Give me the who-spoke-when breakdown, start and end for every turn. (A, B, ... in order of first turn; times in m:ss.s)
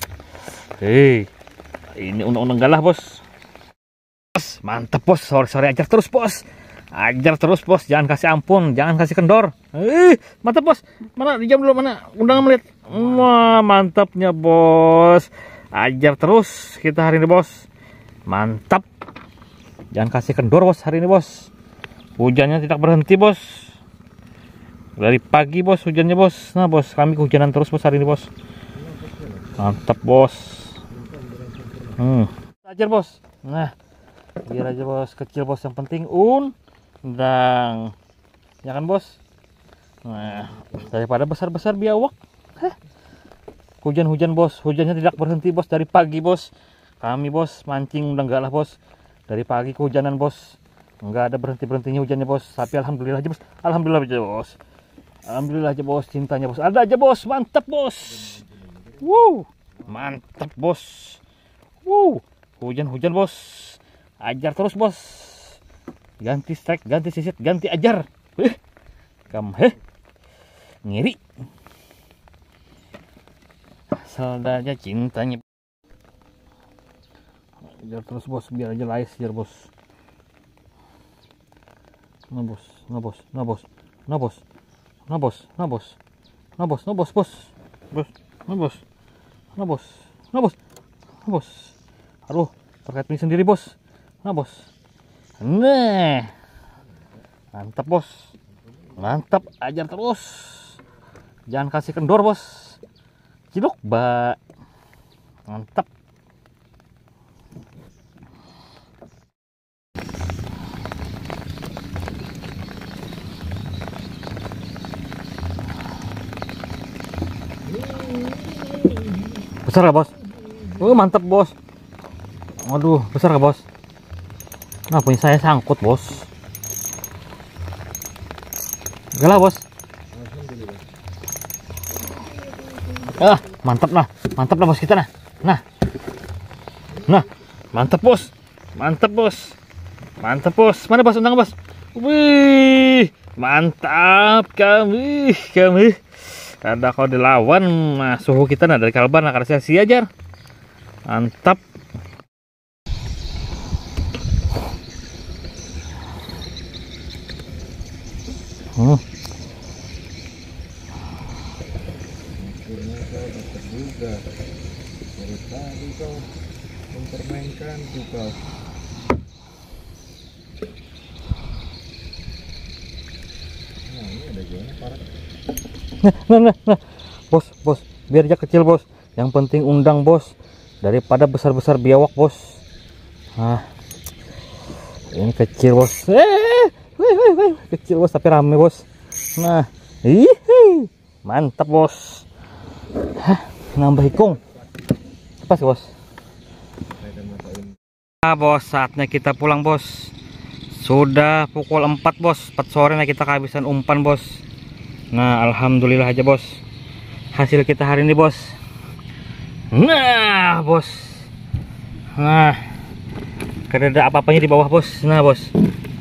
0:00.8-0:01.3 A
0:02.0-0:03.2 A
0:04.3-0:17.7 A
0:18.3-0:18.8 A
0:19.9-0:21.5 A
0:22.2-0:23.7 A
0:25.0-0:28.3 A
0:28.8-0:29.6 B
0:29.6-0:30.8 A
0:30.9-0:32.0 B
0:32.0-0:33.7 A
0:34.4-0:37.9 A
0:38.6-0:39.2 A
0:40.0-0:42.7 A
0:43.8-0:46.5 A
0:47.0-0:48.8 A
0:49.3-0:54.6 A
0:55.3-0:58.4 A
0:58.1-0:59.0 B
0:59.0-1:01.2 A
1:01.8-1:05.6 A
1:06.2-1:08.6 A
1:09.3-1:09.8 A
1:10.8-1:11.2 A
1:13.9-1:15.4 A
1:17.8-1:19.7 A
1:22.3-1:24.4 A
1:25.1-1:26.0 A
1:26.6-1:28.8 A
1:29.6-1:30.6 A
1:31.2-1:31.7 A
1:32.3-1:34.7 A
1:35.4-1:36.3 A
1:37.5-1:38.3 A
1:39.0-1:40.8 A
1:41.5-1:42.8 A
1:43.5-1:44.4 A
1:45.5-1:45.9 A
1:57.7-1:59.2 B
1:59.6-2:00.1 A
2:00.5-2:00.8 B
2:00.8-2:01.5 A
2:02.6-2:03.6 A
2:04.9-2:06.3 A
2:09.2-2:09.6 A
2:10.1-2:10.8 B
2:13.1-2:15.6 A
2:17.0-2:19.6 A
2:20.2-2:26.0 A
2:26.6-2:30.1 A
2:31.1-2:31.6 A
2:42.4-2:44.2 B
2:45.2-2:46.3 B
2:46.9-2:48.4 B
2:53.8-2:55.1 B
2:56.0-3:02.6 A
3:03.4-3:03.6 A
3:05.1-3:12.2 A
3:13.2-3:14.4 A
3:15.4-3:15.9 A
3:17.0-3:17.7 B
3:18.2-3:20.1 A
3:20.7-3:24.4 A
3:25.1-3:26.6 A
3:27.3-3:28.6 A
3:29.7-3:31.2 A
3:32.2-3:32.6 A
3:33.7-3:35.5 A